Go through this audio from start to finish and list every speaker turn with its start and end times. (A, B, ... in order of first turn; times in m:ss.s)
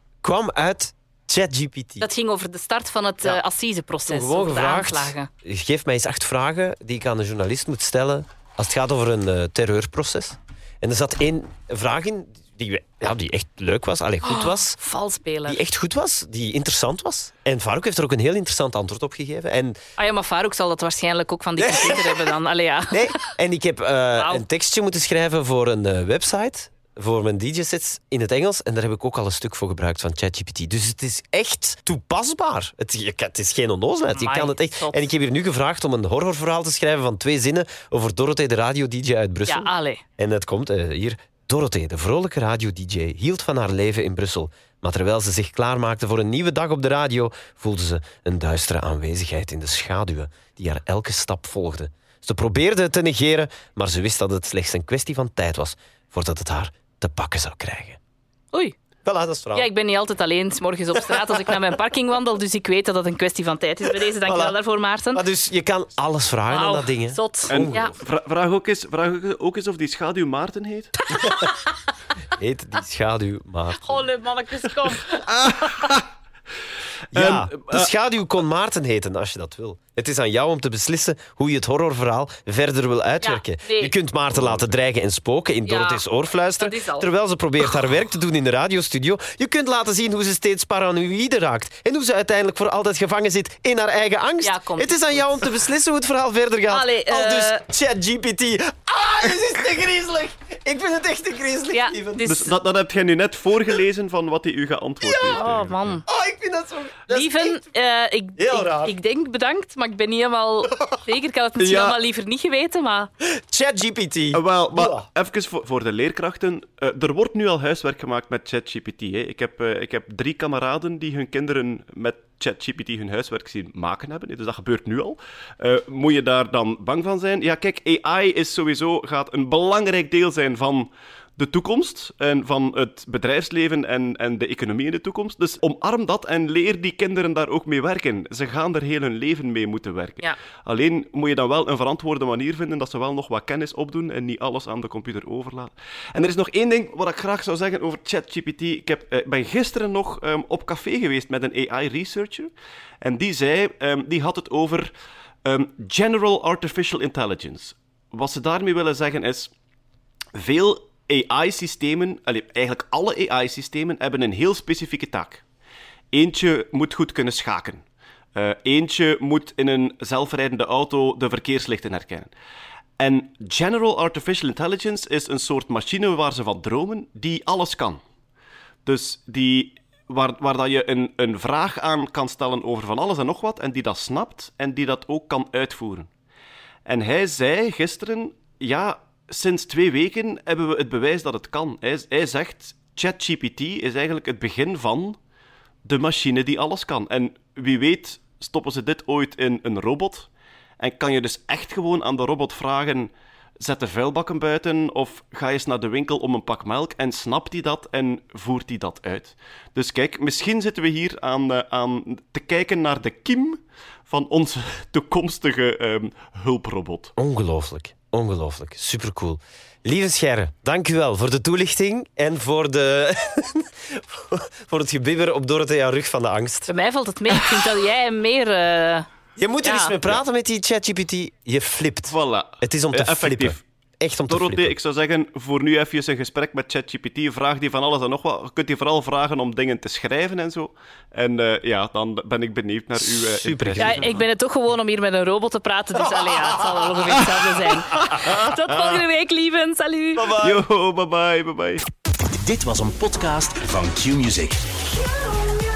0:00.2-0:02.1 A
0:02.0-0:05.3 B
0:04.1-0:14.8 A
0:14.2-0:15.6 B
0:15.5-0:19.8 A
0:20.0-0:23.2 B
0:21.6-0:22.2 A
0:22.9-0:58.0 A
0:24.1-0:24.4 B
0:34.1-0:35.1 B
0:39.4-0:40.0 B
0:59.0-0:59.7 A
0:59.5-1:05.2 B
1:04.2-1:04.6 A
1:05.1-1:08.0 A
1:06.5-1:07.9 B
1:07.5-1:11.0 C
1:11.1-1:11.6 B
1:12.4-1:14.1 A
1:13.8-1:15.2 B
1:15.3-1:16.0 C
1:17.1-1:17.9 C
1:17.1-1:42.2 A
1:23.2-1:23.9 B
1:24.3-1:24.7 C
1:25.6-1:26.0 B
1:26.6-1:27.1 B
1:34.4-1:35.5 B
1:36.7-1:37.6 B
1:41.7-1:42.5 B
1:42.2-1:45.8 C
1:45.0-1:45.4 A
1:45.3-1:46.0 B
1:46.0-1:47.6 A
1:47.1-1:53.1 B
1:48.4-1:48.9 A
1:51.6-1:52.0 C
1:53.2-1:55.0 A
1:54.3-2:34.9 C
2:35.4-2:39.5 C
2:40.3-2:45.4 C
2:46.1-2:47.8 C
2:48.3-2:52.3 C
2:53.0-2:58.0 C
2:58.8-3:06.1 C
3:06.8-3:15.2 C
3:15.8-3:20.3 C
3:20.8-3:37.1 C
3:37.2-3:46.7 A
3:46.7-3:49.1 B
3:49.4-3:54.8 A
3:49.6-3:50.0 B
3:52.0-3:53.6 C
3:54.3-4:04.2 C
4:03.0-4:04.2 A
4:03.8-4:10.4 B
4:07.9-4:08.3 C
4:10.2-4:10.6 A
4:10.4-4:11.8 C
4:12.2-4:14.6 D